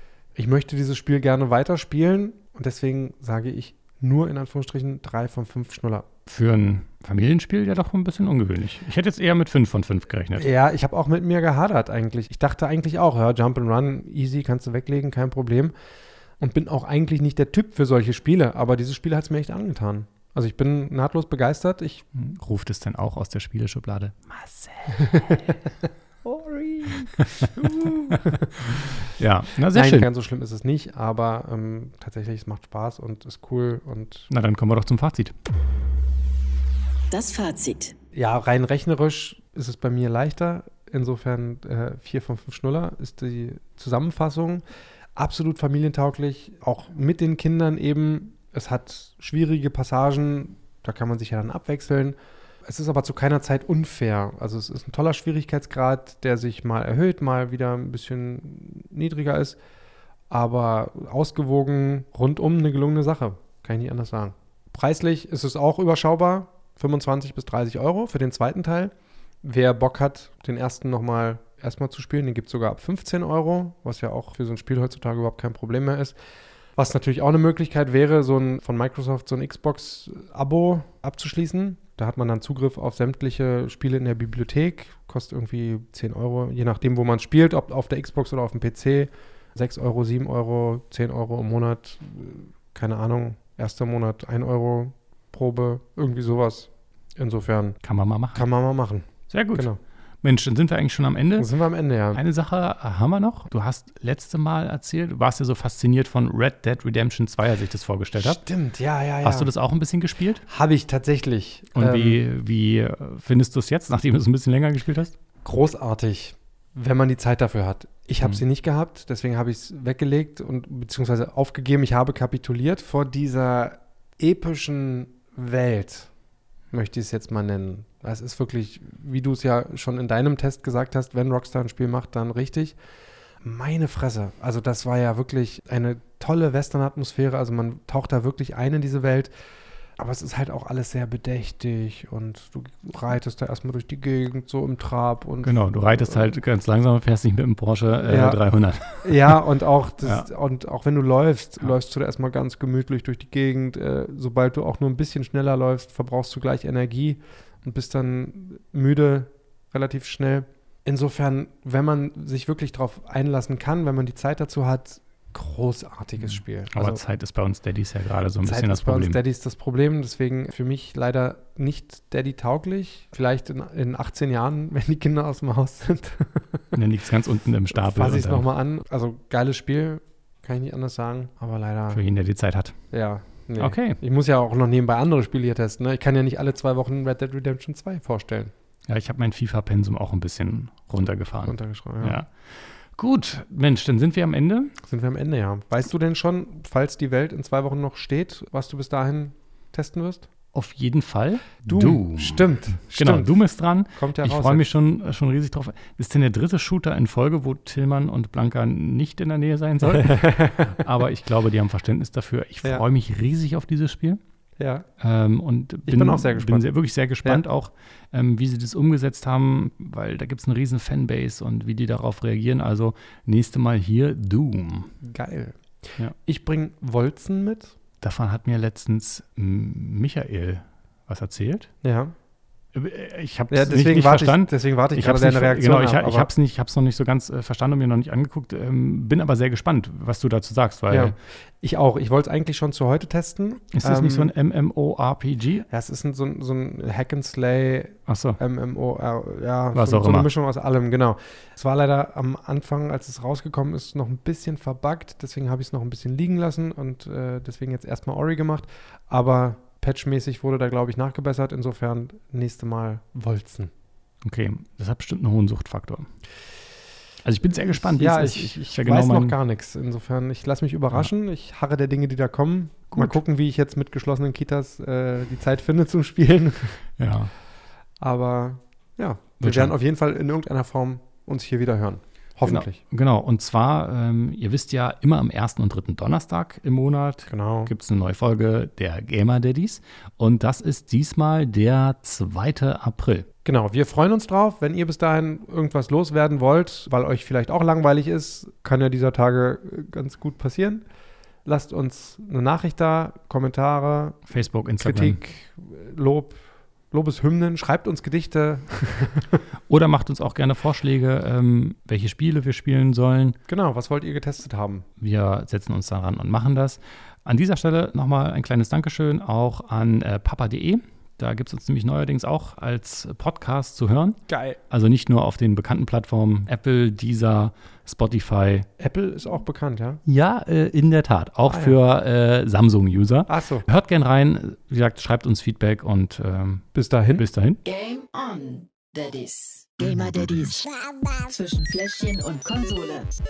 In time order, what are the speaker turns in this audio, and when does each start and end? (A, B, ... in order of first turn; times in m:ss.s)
0:00.4-0:06.0 A
0:06.3-0:10.5 B
0:10.4-0:15.7 A
0:16.4-0:22.1 A
0:22.1-0:25.5 B
0:25.0-0:25.4 A
0:26.3-0:30.1 B
0:26.4-0:28.9 A
0:29.7-0:34.3 A
0:34.3-0:35.3 B
0:37.1-0:37.9 C
0:38.1-0:44.6 A
0:45.2-0:59.6 A
1:00.3-1:08.9 A
1:09.4-1:16.2 A
1:16.8-1:37.8 A
1:37.8-1:38.4 B
1:38.3-1:39.8 A
1:39.3-1:39.7 B
1:40.2-1:41.5 B
1:41.4-1:42.2 A
1:42.1-1:48.4 B
1:48.2-1:49.5 A
1:49.2-1:50.4 B
1:50.5-1:52.2 A
1:51.7-1:55.1 B
1:55.4-2:06.1 A
2:06.7-2:12.8 A
2:13.4-2:19.3 A
2:20.0-2:26.3 A
2:25.4-2:29.4 B
2:28.0-2:28.4 A
2:29.0-2:47.0 A
2:30.0-2:30.3 B
2:46.3-2:49.2 B
2:48.4-2:56.7 A
2:56.7-2:58.5 B
2:57.7-3:02.0 A
3:01.9-3:02.8 B
3:02.9-3:08.5 A
3:03.6-3:04.0 B
3:08.9-3:14.7 B
3:11.4-3:12.2 A
3:14.8-3:20.3 A
3:20.5-3:34.2 B
3:21.6-3:23.3 A
3:24.0-3:24.7 A
3:29.9-3:30.8 A
3:34.6-3:34.8 A
3:35.0-3:44.9 B
3:35.9-3:36.7 A
3:45.0-3:47.8 A
3:48.0-3:51.7 B
3:51.8-3:52.1 A
3:52.7-4:01.2 B
3:53.5-3:56.3 A
4:00.9-4:04.3 A
4:03.7-4:05.6 B
4:05.7-4:23.7 A
4:08.1-4:08.4 B
4:09.7-4:10.3 B
4:24.2-4:26.1 B
4:27.2-4:29.4 B
4:27.7-4:36.8 A
4:32.9-4:33.2 B
4:37.0-4:37.3 B
4:38.0-4:42.8 A
4:39.4-4:39.7 B
4:42.4-4:53.3 B
4:47.3-4:47.7 A
4:53.4-5:00.8 A
5:01.4-5:04.2 A
5:04.3-5:05.2 B
5:04.8-5:06.4 A
5:06.9-5:09.4 A
5:09.7-5:13.4 B
5:13.5-5:14.8 A
5:15.0-5:28.7 B
5:24.3-5:24.6 A
5:28.8-5:30.0 A
5:30.0-5:36.6 B
5:31.5-5:31.8 A
5:33.3-5:33.6 A
5:36.7-5:37.2 A
5:37.2-5:37.6 B
5:37.6-5:43.1 C